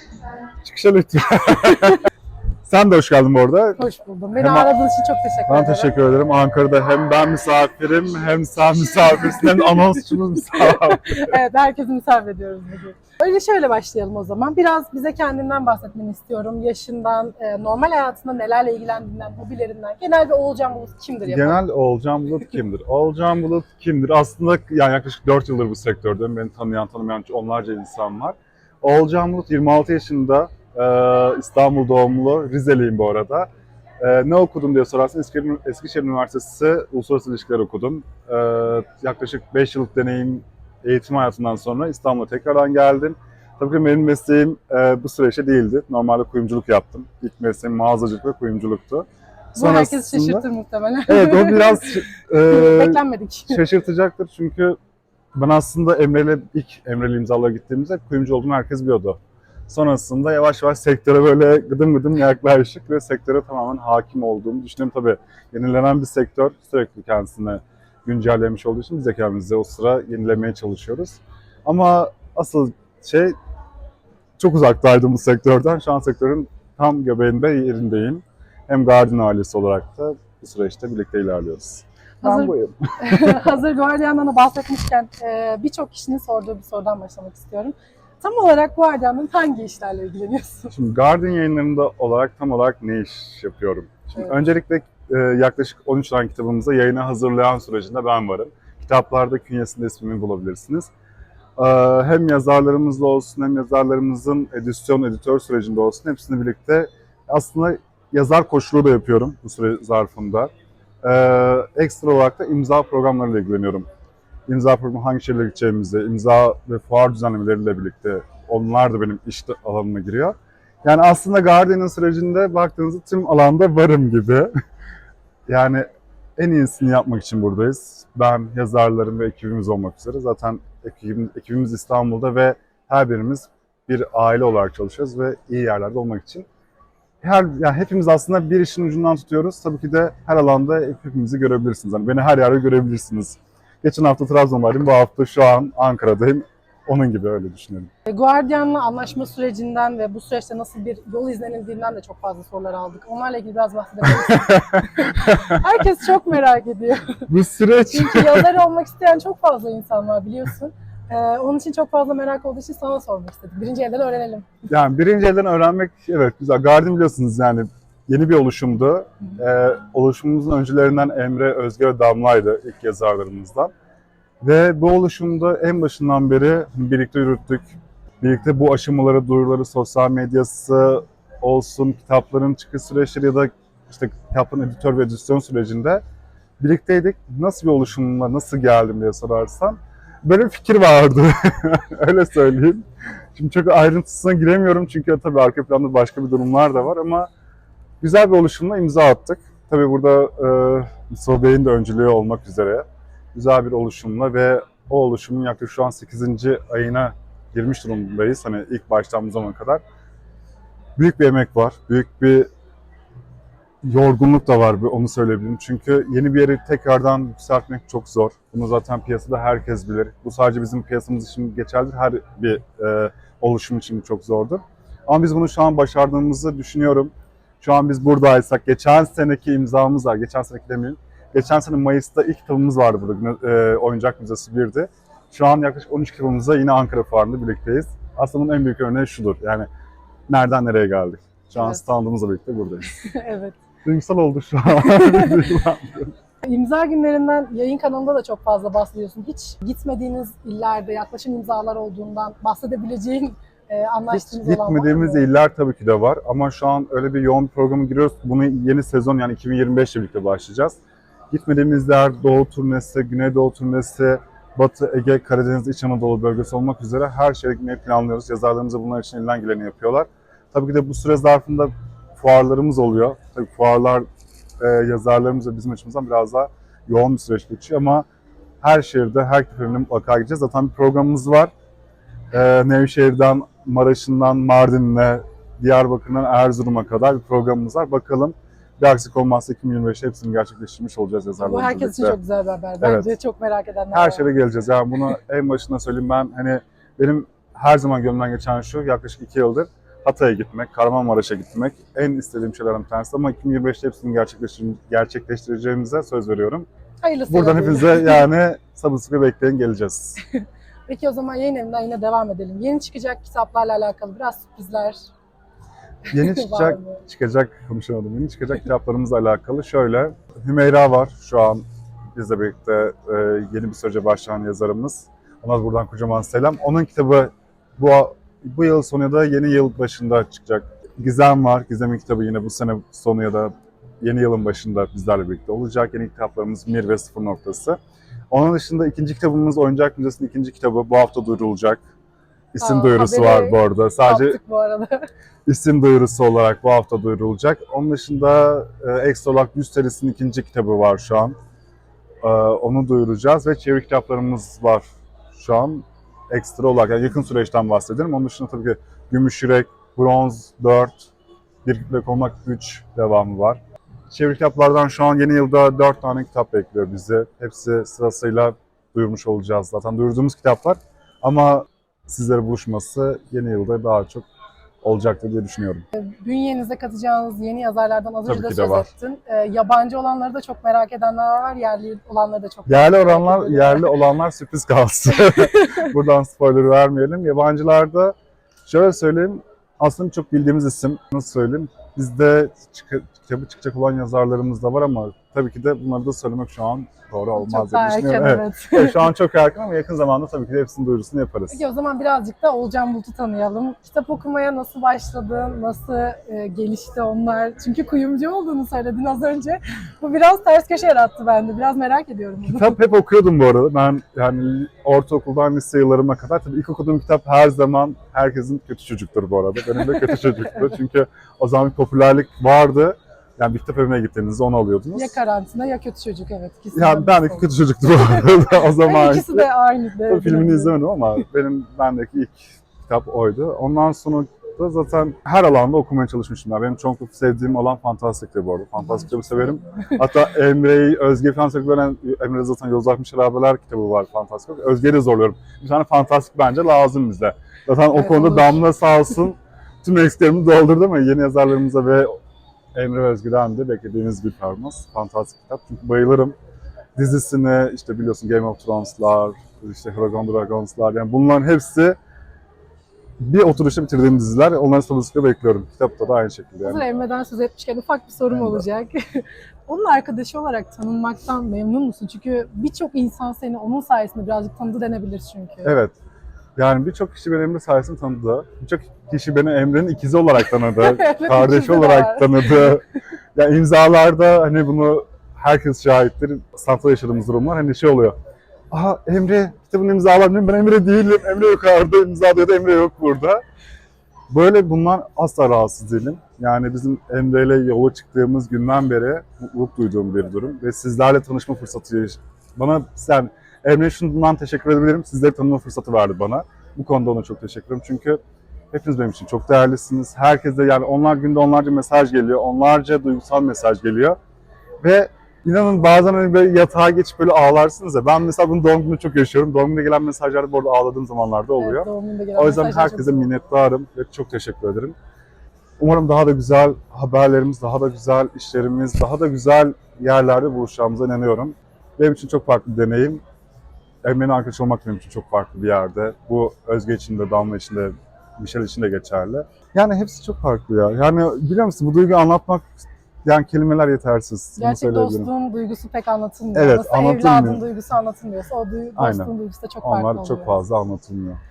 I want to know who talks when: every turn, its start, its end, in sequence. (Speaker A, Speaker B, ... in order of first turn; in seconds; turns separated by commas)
Speaker A: 0.6-2.0, Speaker A: 2.6-4.7, Speaker B: 3.8-5.9, Speaker A: 5.5-11.2, Speaker B: 10.6-21.6, Speaker A: 21.2-33.5, Speaker A: 34.0-50.4, Speaker B: 49.5-53.6, Speaker A: 51.1-54.8, Speaker A: 55.3-73.3, Speaker A: 74.4-83.5, Speaker B: 82.2-90.7, Speaker A: 90.7-100.9, Speaker A: 101.6-110.5, Speaker A: 111.0-113.9, Speaker A: 114.5-124.5, Speaker A: 125.5-125.8, Speaker A: 126.4-136.4, Speaker A: 137.2-147.9, Speaker B: 148.1-157.2, Speaker A: 154.1-155.6, Speaker A: 157.3-158.5, Speaker B: 157.9-164.5, Speaker A: 164.7-173.7, Speaker A: 174.4-186.0, Speaker A: 186.6-197.3, Speaker A: 198.0-209.8, Speaker A: 210.9-212.5, Speaker A: 213.8-239.7, Speaker A: 240.3-243.0, Speaker B: 243.0-243.6, Speaker A: 243.8-246.1, Speaker B: 244.9-245.3, Speaker B: 246.4-255.3, Speaker A: 254.1-260.8, Speaker A: 261.3-274.0, Speaker A: 274.6-278.1, Speaker A: 278.6-281.5, Speaker A: 282.3-292.2, Speaker B: 291.4-294.3, Speaker A: 292.8-293.1, Speaker A: 293.9-306.7, Speaker B: 307.0-308.3, Speaker A: 307.3-310.2, Speaker B: 310.9-315.1, Speaker A: 316.1-321.6, Speaker B: 316.1-317.0, Speaker A: 322.1-337.8, Speaker A: 338.3-341.8, Speaker A: 342.5-344.4, Speaker B: 342.6-345.1, Speaker A: 345.4-351.4, Speaker A: 352.2-361.1, Speaker A: 361.6-374.2, Speaker A: 374.8-375.9, Speaker B: 375.9-383.9, Speaker A: 378.2-378.9, Speaker A: 382.7-401.6, Speaker B: 385.2-385.8, Speaker B: 397.4-399.0, Speaker B: 401.5-412.7, Speaker A: 412.4-425.1, Speaker B: 424.9-427.5, Speaker A: 426.7-429.5, Speaker B: 428.2-430.8, Speaker A: 430.1-452.1, Speaker B: 438.8-440.0, Speaker B: 447.9-448.6, Speaker A: 452.7-456.3, Speaker A: 456.9-462.0, Speaker A: 463.2-466.8, Speaker B: 466.6-475.7, Speaker A: 468.3-468.6, Speaker A: 475.6-475.9, Speaker A: 476.6-482.8, Speaker B: 480.7-482.8, Speaker A: 483.3-488.1, Speaker A: 488.7-493.4, Speaker A: 494.3-508.2, Speaker A: 508.7-514.2, Speaker A: 514.8-525.0, Speaker B: 521.6-523.3, Speaker A: 525.8-533.2, Speaker A: 534.0-545.3, Speaker B: 544.6-550.6, Speaker A: 546.5-547.6, Speaker A: 549.0-551.4